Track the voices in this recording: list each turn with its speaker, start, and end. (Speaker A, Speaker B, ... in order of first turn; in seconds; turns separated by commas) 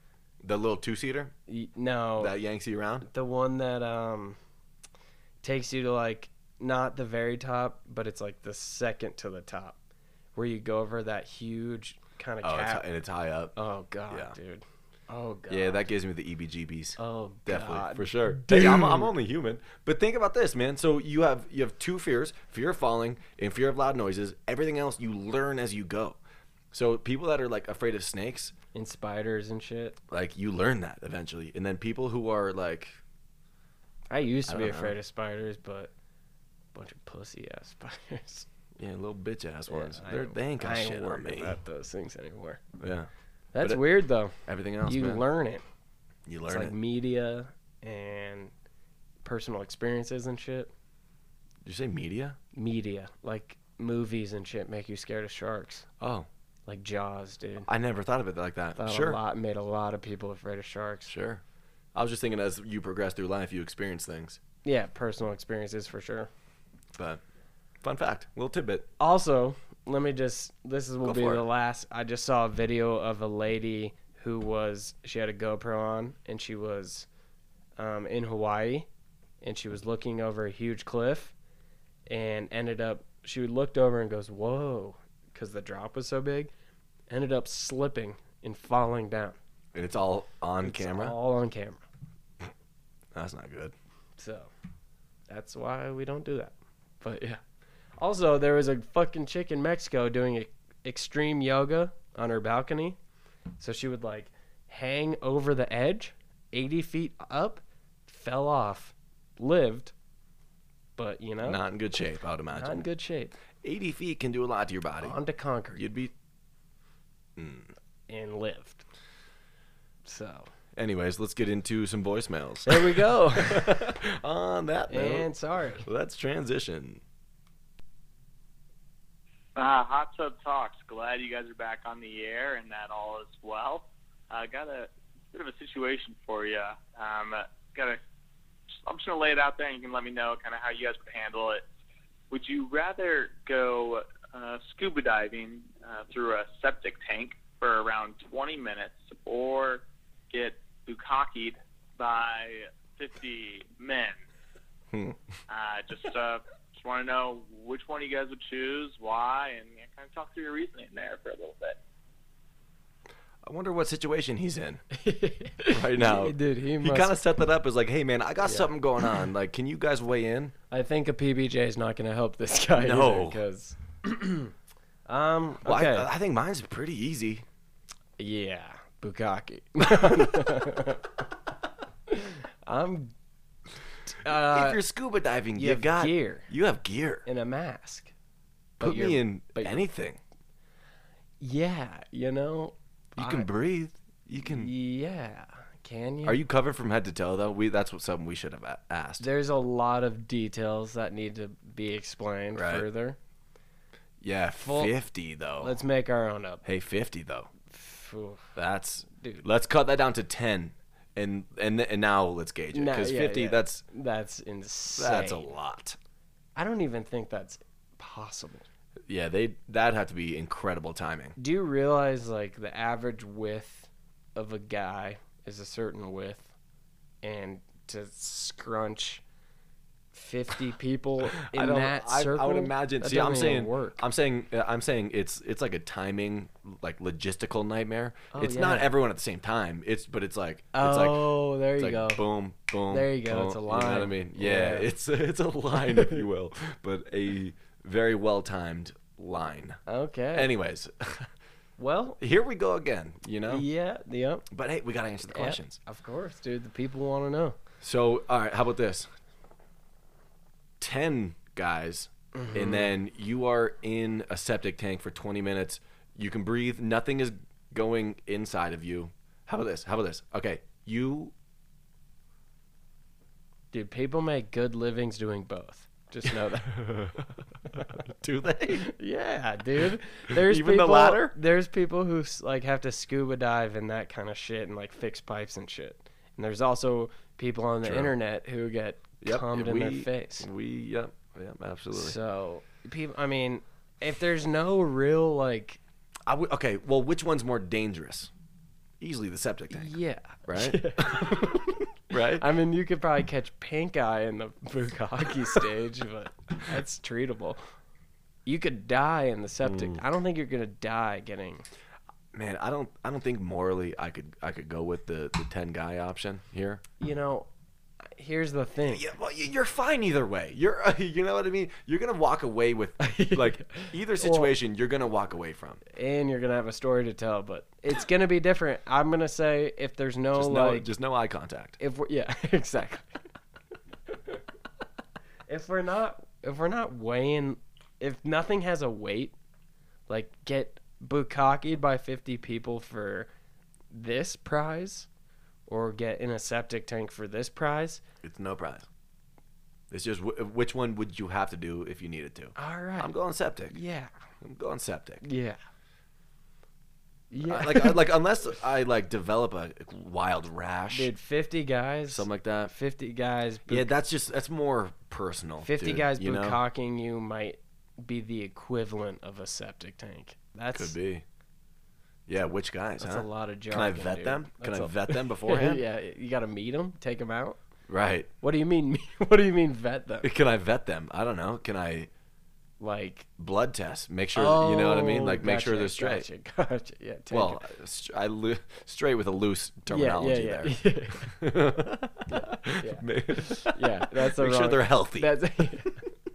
Speaker A: 0.4-1.3, Speaker B: 1.5-2.3, Speaker A: 2.2-3.1, Speaker B: 3.0-4.4, Speaker B: 5.4-9.8, Speaker B: 10.3-12.9, Speaker A: 12.4-13.5, Speaker B: 13.5-15.9, Speaker A: 14.1-14.3, Speaker A: 15.5-26.2, Speaker B: 17.0-19.1, Speaker A: 26.7-28.5, Speaker B: 28.7-30.0, Speaker A: 30.1-33.0, Speaker B: 34.1-35.9, Speaker A: 34.5-34.9, Speaker B: 36.7-38.5, Speaker A: 38.8-41.6, Speaker B: 39.7-42.6, Speaker A: 42.8-43.1, Speaker B: 43.5-45.6, Speaker A: 44.4-45.2, Speaker A: 46.2-46.7, Speaker B: 46.5-48.5, Speaker B: 49.2-50.7, Speaker A: 51.6-52.4, Speaker B: 52.5-55.9, Speaker A: 56.0-56.3, Speaker B: 56.7-57.7, Speaker A: 57.6-59.2, Speaker B: 58.8-61.1, Speaker A: 61.1-61.4, Speaker A: 61.9-64.4, Speaker B: 64.6-66.3, Speaker A: 67.0-67.2, Speaker A: 67.8-68.9, Speaker B: 69.0-77.1, Speaker A: 71.0-71.5, Speaker B: 77.8-78.9, Speaker B: 79.4-81.3, Speaker B: 82.1-86.5, Speaker B: 87.1-89.4, Speaker A: 89.7-91.1, Speaker B: 90.6-91.8, Speaker A: 93.1-93.7, Speaker B: 94.2-94.5, Speaker B: 95.3-97.4, Speaker B: 98.0-103.0, Speaker B: 103.6-109.9, Speaker B: 111.0-111.6, Speaker A: 111.4-112.8, Speaker B: 112.5-113.3, Speaker A: 113.6-115.1, Speaker B: 115.0-115.8, Speaker A: 115.8-116.1, Speaker A: 117.4-117.7, Speaker B: 118.1-118.8, Speaker B: 120.0-120.5, Speaker A: 120.7-125.3, Speaker B: 122.7-123.9, Speaker B: 124.9-125.9, Speaker A: 125.8-127.0, Speaker C: 129.6-138.0, Speaker C: 138.8-141.7, Speaker C: 142.3-154.2, Speaker A: 154.9-155.2, Speaker C: 155.5-161.8, Speaker A: 163.4-164.8, Speaker B: 164.9-167.2, Speaker A: 165.7-170.5, Speaker B: 168.4-169.2, Speaker B: 170.7-174.5, Speaker A: 172.8-173.4, Speaker B: 175.1-176.1, Speaker A: 175.6-177.4, Speaker B: 178.2-181.2, Speaker B: 182.1-183.1, Speaker B: 184.1-184.8, Speaker A: 184.3-187.2, Speaker B: 185.5-186.5, Speaker B: 187.2-188.1, Speaker B: 188.8-189.9, Speaker A: 188.8-190.2, Speaker B: 191.4-193.5, Speaker A: 193.2-194.7, Speaker B: 194.4-196.4, Speaker A: 196.2-199.3, Speaker B: 199.2-203.2, Speaker A: 202.5-202.8, Speaker A: 204.2-205.7, Speaker B: 204.6-204.9, Speaker B: 205.6-206.6, Speaker A: 206.6-207.5, Speaker B: 207.7-208.5, Speaker A: 208.6-213.8, Speaker B: 209.1-209.4, Speaker B: 212.7-215.4, Speaker A: 215.0-216.0, Speaker B: 216.6-218.7, Speaker A: 219.1-221.3, Speaker B: 221.4-226.5, Speaker B: 227.2-229.2, Speaker B: 230.1-234.0, Speaker A: 231.4-249.8, Speaker B: 238.3-238.9, Speaker B: 240.7-242.2, Speaker B: 242.9-244.9, Speaker B: 245.8-246.2, Speaker B: 249.8-250.5, Speaker A: 250.3-251.3, Speaker B: 251.8-252.2, Speaker A: 252.2-253.6, Speaker B: 253.5-254.4, Speaker A: 254.5-255.8, Speaker B: 255.2-257.6, Speaker A: 257.8-259.1, Speaker A: 260.8-271.3, Speaker B: 262.3-262.9, Speaker B: 273.7-277.1, Speaker A: 276.3-278.9, Speaker B: 278.8-290.5, Speaker A: 280.3-281.4, Speaker A: 287.8-288.1, Speaker A: 289.2-292.1, Speaker B: 291.9-295.8, Speaker A: 296.2-298.3, Speaker A: 299.0-299.9, Speaker B: 299.7-307.6, Speaker A: 300.4-302.4, Speaker B: 308.4-311.6, Speaker A: 309.6-310.0, Speaker A: 312.3-316.8, Speaker B: 317.0-317.5, Speaker B: 318.1-319.0, Speaker A: 318.9-325.8, Speaker B: 323.0-324.5, Speaker B: 325.9-330.9, Speaker A: 330.3-331.8, Speaker B: 331.8-333.2, Speaker B: 334.1-334.4, Speaker B: 335.5-339.3, Speaker B: 340.1-343.3, Speaker B: 343.9-345.1, Speaker B: 345.7-348.0, Speaker A: 348.2-348.9, Speaker A: 349.9-353.8, Speaker B: 352.6-353.1, Speaker B: 353.7-354.1, Speaker A: 354.4-355.2, Speaker B: 355.2-355.6, Speaker B: 357.3-358.0, Speaker A: 357.4-361.1, Speaker B: 360.9-363.9, Speaker A: 362.1-362.7, Speaker A: 363.7-366.6, Speaker B: 365.6-370.9, Speaker A: 370.7-371.2, Speaker A: 372.3-375.8, Speaker B: 373.0-377.6, Speaker A: 377.9-378.3, Speaker B: 378.4-380.3, Speaker A: 380.2-382.1, Speaker B: 382.8-383.3, Speaker A: 383.4-386.2, Speaker B: 384.3-387.6, Speaker A: 387.3-395.9, Speaker B: 389.9-391.4, Speaker B: 392.3-396.0